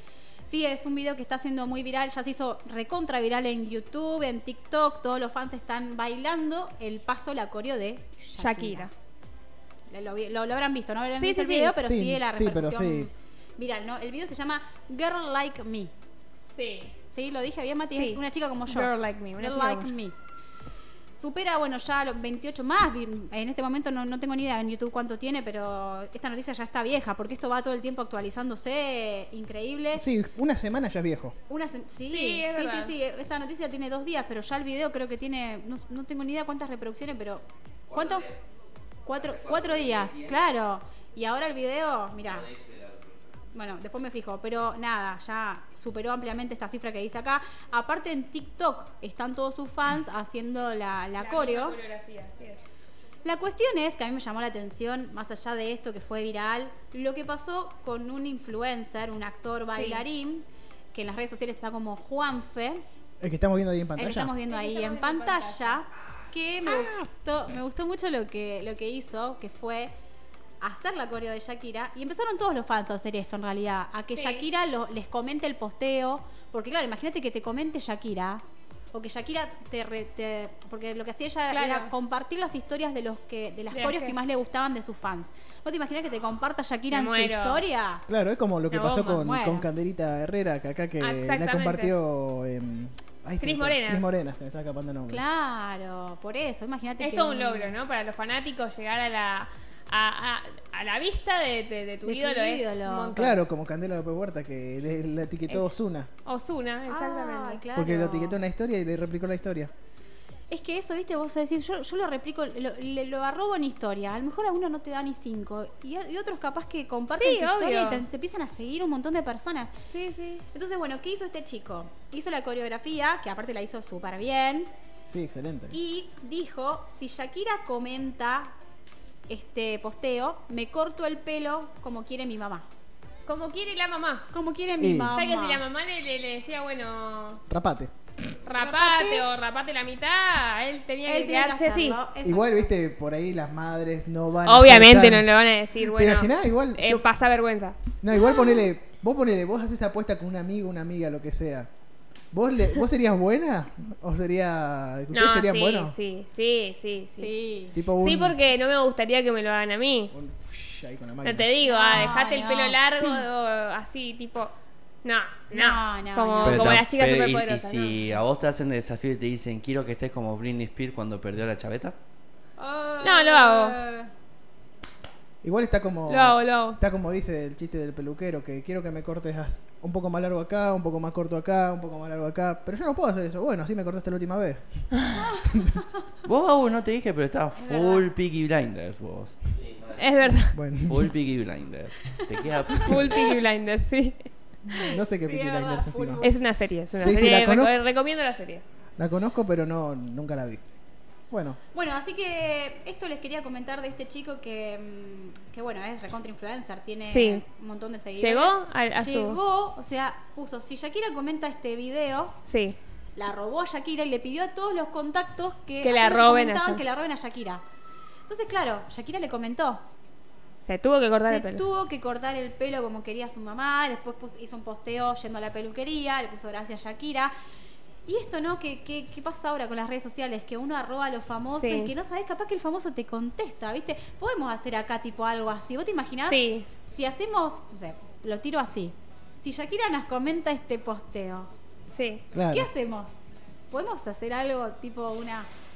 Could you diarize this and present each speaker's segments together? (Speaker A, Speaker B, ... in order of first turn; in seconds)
Speaker A: 0.5-8.9, 9.9-15.9, 17.1-20.1, 21.2-30.0, 31.5-38.3, 39.1-42.5, 43.5-51.8, 53.2-62.8, 64.0-69.9, 70.6-88.0, 89.1-89.7, 95.1-97.8, 102.0-103.4, 106.9-108.4, 110.5-119.7, 120.5-124.7, 125.7-128.5, 129.3-132.7, 134.3-135.7, 138.5-139.3, 141.1-142.7, 148.2-148.6, 157.2-157.8, 161.6-163.2, 165.5-166.8, 172.6-174.1, 185.1-185.9, 187.6-188.1, 192.2-193.1, 194.8-196.4, 201.7-212.4, 213.2-217.6, 218.3-219.8, 221.2-227.3, 228.1-241.5, 242.5-243.1, 243.7-245.5
Speaker B: 8.4-8.9, 11.2-11.8, 16.5-16.9, 17.9-19.9, 32.0-33.0, 51.2-52.6, 59.8-60.0, 64.5-65.8, 74.1-74.5, 81.5-81.9, 83.7-84.2, 86.9-87.6, 88.7-89.2, 91.0-91.9, 93.4-94.0, 97.0-103.3, 106.2-107.6, 117.2-118.0, 119.9-120.4, 133.3-134.3, 135.1-137.4, 138.4-142.0, 144.5-147.8, 155.1-157.3, 158.0-160.1, 161.2-164.5, 165.0-168.0, 173.0-173.8, 176.1-176.8, 189.9-190.6, 192.8-194.3, 196.2-198.6, 207.1-207.4, 208.2-209.4, 212.5-212.8, 215.8-216.8, 220.6-221.6, 231.5-231.9, 236.3-236.7, 241.9-242.2
Speaker C: 11.8-13.1, 29.9-31.4, 63.2-64.3, 88.1-95.2, 103.1-106.1, 107.8-109.7, 125.1-125.8, 134.8-135.2, 137.5-137.9, 142.2-147.0, 148.0-151.7, 152.3-155.9, 157.7-158.4, 160.1-162.2, 175.4-185.0, 190.5-191.1, 194.9-196.2, 197.0-197.7, 199.0-200.6, 201.3-201.6, 242.3-242.7
Speaker D: 37.9-38.2, 39.5-40.1, 42.3-43.3, 166.4-172.0, 186.2-189.6, 190.8-193.3